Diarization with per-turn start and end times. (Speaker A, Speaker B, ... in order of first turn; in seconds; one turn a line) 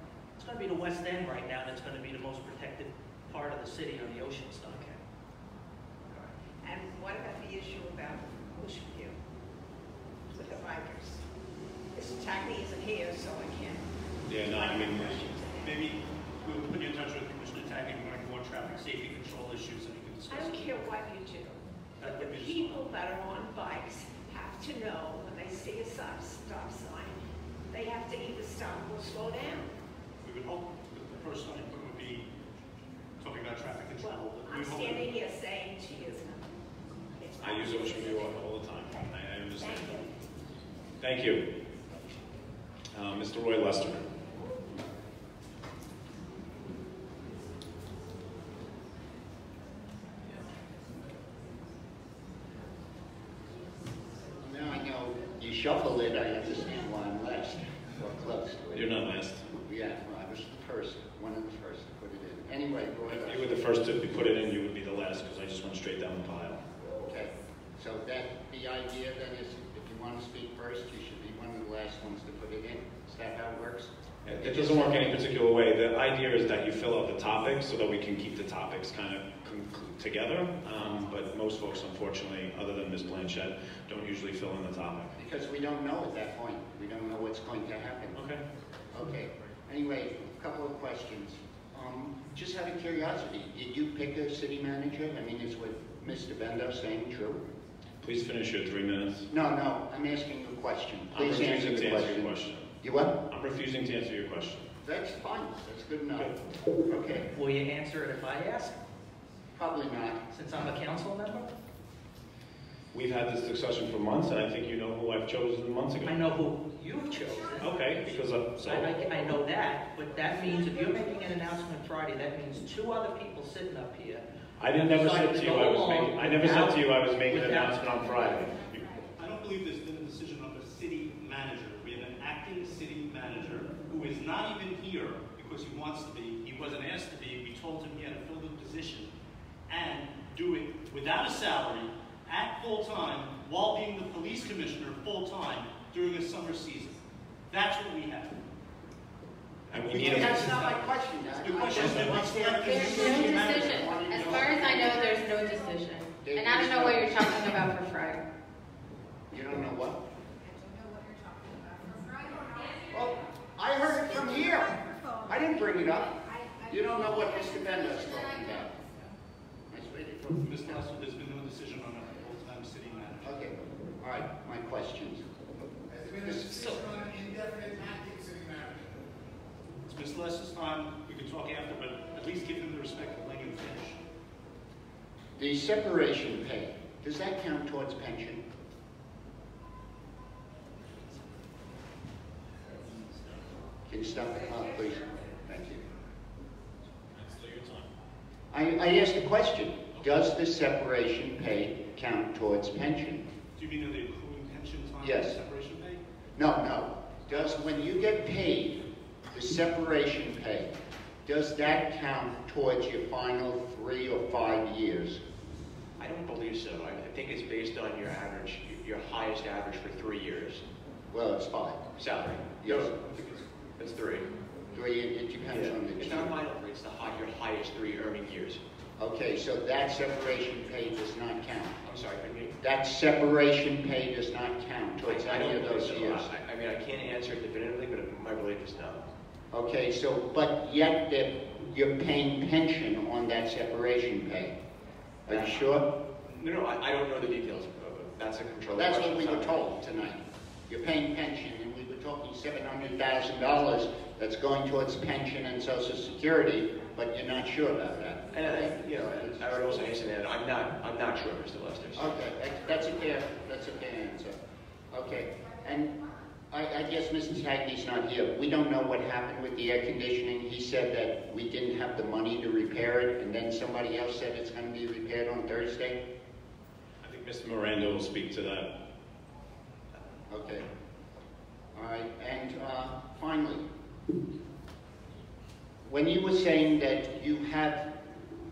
Speaker A: 0.4-5.0
Speaker B: 6.1-9.2
Speaker B: 10.3-11.2
Speaker B: 11.9-13.8
Speaker C: 14.3-15.2
Speaker B: 14.4-15.8
Speaker D: 15.6-20.7
Speaker B: 20.3-29.7
Speaker D: 22.0-22.9
Speaker D: 30.2-32.3
Speaker D: 33.2-35.1
Speaker B: 34.0-36.5
Speaker B: 37.2-38.2
Speaker C: 37.4-40.0
Speaker B: 39.5-40.1
Speaker C: 41.0-41.5
Speaker C: 42.9-44.0
Speaker E: 54.4-58.9
Speaker C: 58.7-59.5
Speaker E: 59.6-63.5
Speaker C: 63.1-66.6
Speaker E: 67.0-75.2
Speaker C: 74.2-85.1
Speaker E: 85.2-88.2
Speaker C: 88.2-88.4
Speaker E: 88.9-97.4
Speaker C: 98.0-99.3
Speaker E: 99.3-102.3
Speaker C: 101.1-102.7
Speaker E: 102.8-103.2
Speaker C: 103.3-104.7
Speaker E: 104.8-107.2
Speaker A: 107.3-108.8
Speaker E: 109.5-110.2
Speaker A: 110.3-111.5
Speaker C: 112.9-116.1
Speaker A: 116.0-127.9
Speaker C: 117.6-118.9
Speaker C: 124.6-129.0
Speaker D: 129.2-139.1
Speaker D: 139.7-147.0
Speaker D: 147.5-148.3
Speaker C: 149.7-150.6
Speaker E: 149.9-155.3
Speaker D: 149.9-150.8
Speaker D: 151.4-154.5
Speaker C: 151.8-152.1
Speaker F: 152.5-158.2
Speaker E: 156.2-157.5
Speaker E: 159.3-160.0
Speaker E: 162.9-168.8
Speaker E: 169.7-170.8
Speaker D: 170.4-173.4
Speaker E: 173.2-175.2
Speaker G: 175.9-178.9
Speaker E: 176.2-176.7
Speaker D: 179.8-184.0
Speaker E: 185.4-188.4
Speaker E: 193.9-195.8
Speaker C: 197.1-197.9
Speaker E: 198.5-203.2
Speaker D: 203.6-206.0
Speaker E: 205.0-205.4
Speaker E: 206.3-210.7
Speaker E: 211.2-215.2
Speaker H: 216.0-220.6
Speaker E: 221.1-221.9
Speaker H: 221.9-224.3
Speaker E: 222.6-223.1
Speaker E: 224.7-226.3
Speaker H: 225.5-228.6
Speaker E: 229.0-231.8
Speaker H: 231.8-232.5
Speaker E: 232.6-236.3
Speaker H: 235.0-239.0
Speaker E: 239.5-244.6
Speaker E: 245.3-245.8
Speaker H: 245.3-245.7
Speaker H: 246.2-249.8
Speaker E: 248.7-259.8
Speaker H: 258.3-262.1
Speaker E: 261.9-264.4
Speaker E: 264.9-266.0
Speaker E: 266.5-276.0
Speaker C: 277.0-278.7
Speaker E: 280.3-280.6
Speaker E: 281.7-283.6
Speaker E: 285.8-287.9